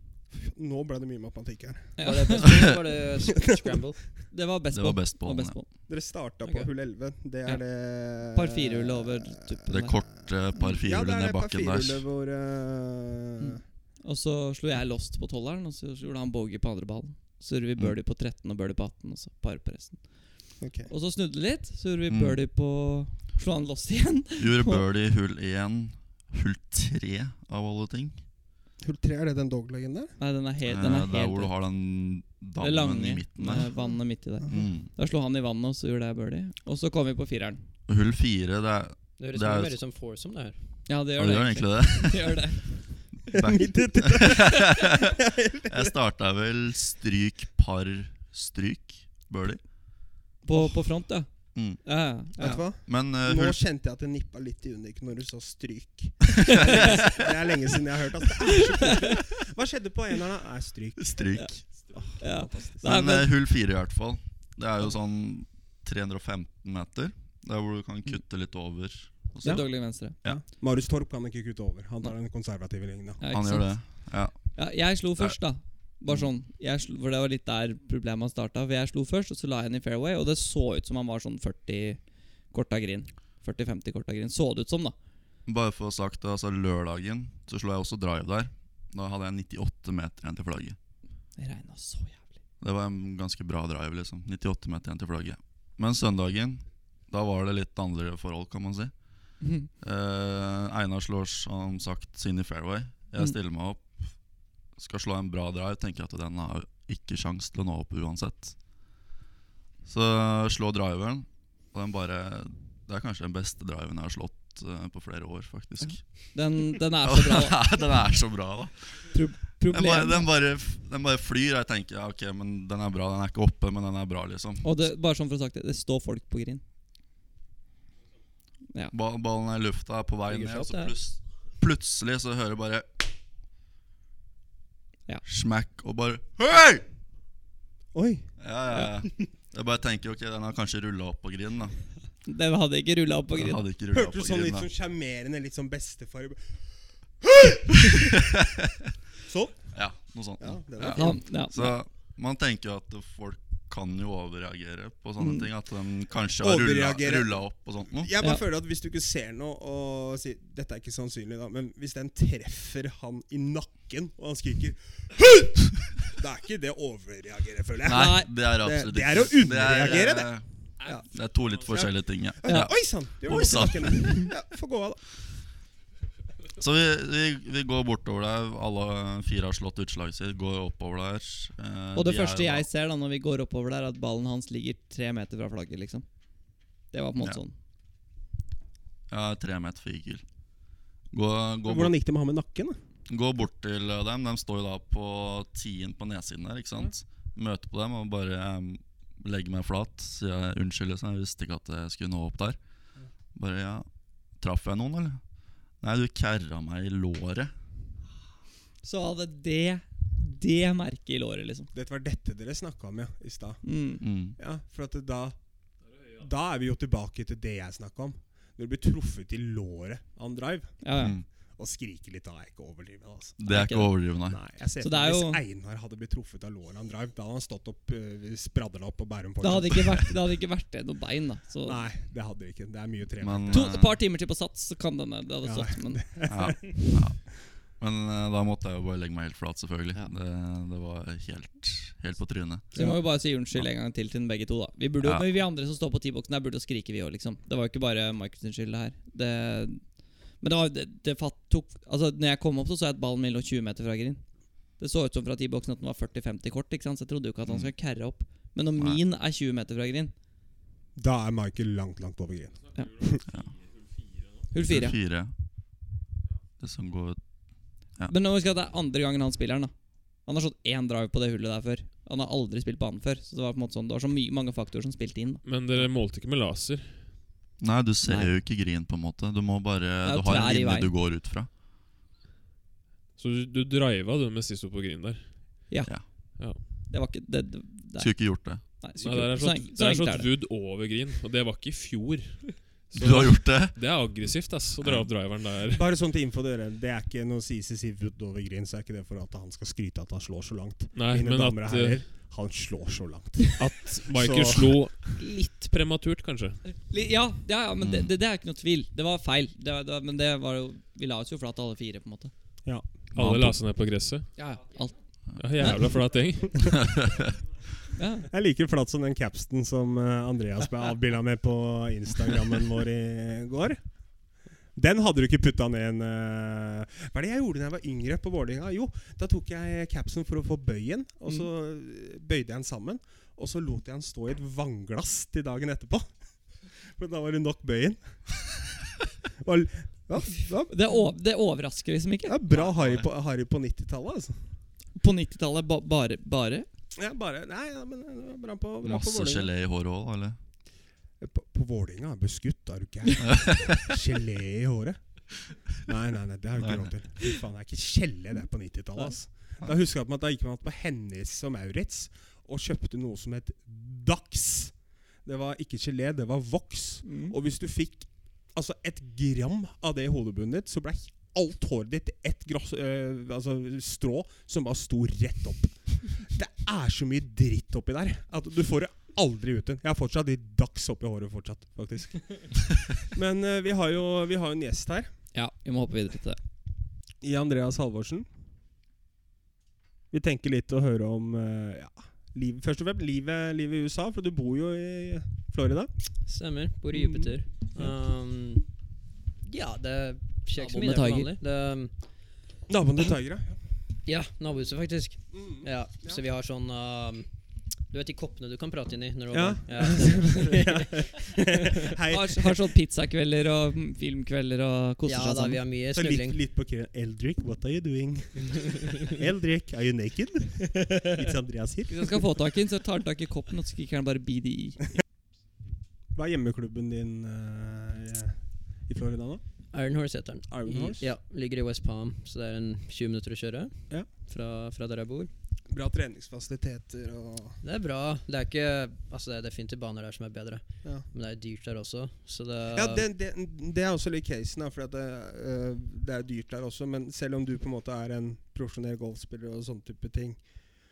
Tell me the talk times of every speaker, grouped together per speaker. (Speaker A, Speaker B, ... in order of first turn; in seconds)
Speaker A: 0.3-2.4, 3.5-3.8, 5.9-9.3, 10.6-13.6, 20.6-20.9, 28.8-30.1, 43.3-46.0, 52.4-61.2, 61.9-62.9, 69.4-73.2, 137.9-138.3, 143.9-146.5, 147.2-148.2, 149.3-149.7, 150.4-151.2, 156.4-170.3, 171.7-175.0, 191.7-192.8, 211.7-213.6, 214.4-215.4, 216.2-220.8, 221.6-223.4, 224.3-230.1, 231.6-233.7, 235.4-237.0, 242.8-243.0, 260.9-263.2, 295.7-305.0, 318.3-323.8, 324.8-336.1, 336.8-338.2, 339.4-340.7, 342.2-344.4, 347.0-349.5, 351.2-355.0, 355.7-364.7, 365.2-385.1, 387.2-388.3, 390.1-395.9, 396.9-397.9, 402.7-403.6, 405.3-406.2, 409.3-412.6, 415.9-422.1, 426.1-429.4, 430.5-431.1, 435.7-437.6, 442.7-450.4
Speaker B: 2.0-2.5, 4.3-5.7, 8.2-10.0, 13.4-20.3, 20.9-24.8, 30.2-31.5, 32.6-37.6, 40.9-42.7, 50.5-52.6, 56.5-57.0, 58.6-59.1, 62.2-63.3, 69.4-70.2, 73.2-82.0, 82.5-85.0, 91.4-92.3, 99.4-99.7, 115.8-117.6, 119.1-120.3, 124.6-126.6, 142.3-143.6, 150.8-151.8, 155.2-155.5, 167.9-168.3, 181.9-186.1, 186.9-187.6, 208.8-211.7, 213.6-214.0, 220.8-221.2, 223.5-223.9, 224.8-225.4, 229.4-231.8, 233.5-236.1, 242.7-249.9, 250.4-254.2, 254.8-260.1, 264.5-265.0, 268.1-269.7, 270.2-275.4, 278.0-278.3, 280.0-280.9, 285.7-290.3, 306.8-312.3, 314.4-315.0, 317.9-318.3, 340.7-342.4, 345.0-346.7, 367.1-367.4, 385.3-386.4, 400.6-401.3, 412.1-415.6, 421.9-424.9
Speaker C: 2.0-4.0, 6.4-6.7, 39.2-40.6, 130.3-130.9, 396.3-398.7, 399.4-401.9, 404.1-407.3, 407.9-411.9, 415.1-416.4, 429.7-435.3, 437.6-443.1
Speaker D: 4.7-5.6, 9.7-12.0, 22.1-22.4, 24.4-28.2, 30.6-33.7, 34.5-34.9, 37.9-39.8, 41.2-42.4, 43.2-45.2, 45.7-49.6, 51.5-51.8, 52.4-53.6, 56.5-57.0, 61.0-61.9, 62.8-70.4, 73.3-74.4, 85.5-90.8, 92.6-104.2, 104.8-108.8, 109.8-116.4, 117.0-119.0, 119.7-124.7, 128.9-133.1, 135.2-136.8, 138.4-141.8, 143.4-144.7, 148.2-148.8, 149.7-158.1, 167.9-170.4, 171.1-174.3, 176.6-182.7, 189.1-190.2, 191.1-191.9, 193.1-202.6, 203.3-203.9, 204.4-205.2, 205.8-207.5, 214.0-214.4, 221.0-221.2, 223.4-224.4, 233.2-234.0, 236.3-242.7, 245.0-245.3, 257.5-257.7, 264.6-265.3, 266.6-267.2, 277.6-281.5, 288.0-288.6, 292.9-294.2, 294.8-295.1, 307.8-308.1, 313.1-313.6, 316.6-317.2, 342.5-343.1, 348.8-350.4, 353.2-353.8, 356.6-356.9
Speaker E: 262.8-264.4, 275.4-277.1, 283.2-285.7, 289.0-295.9, 300.9-302.1, 303.6-306.6, 313.1-314.3, 315.4-316.9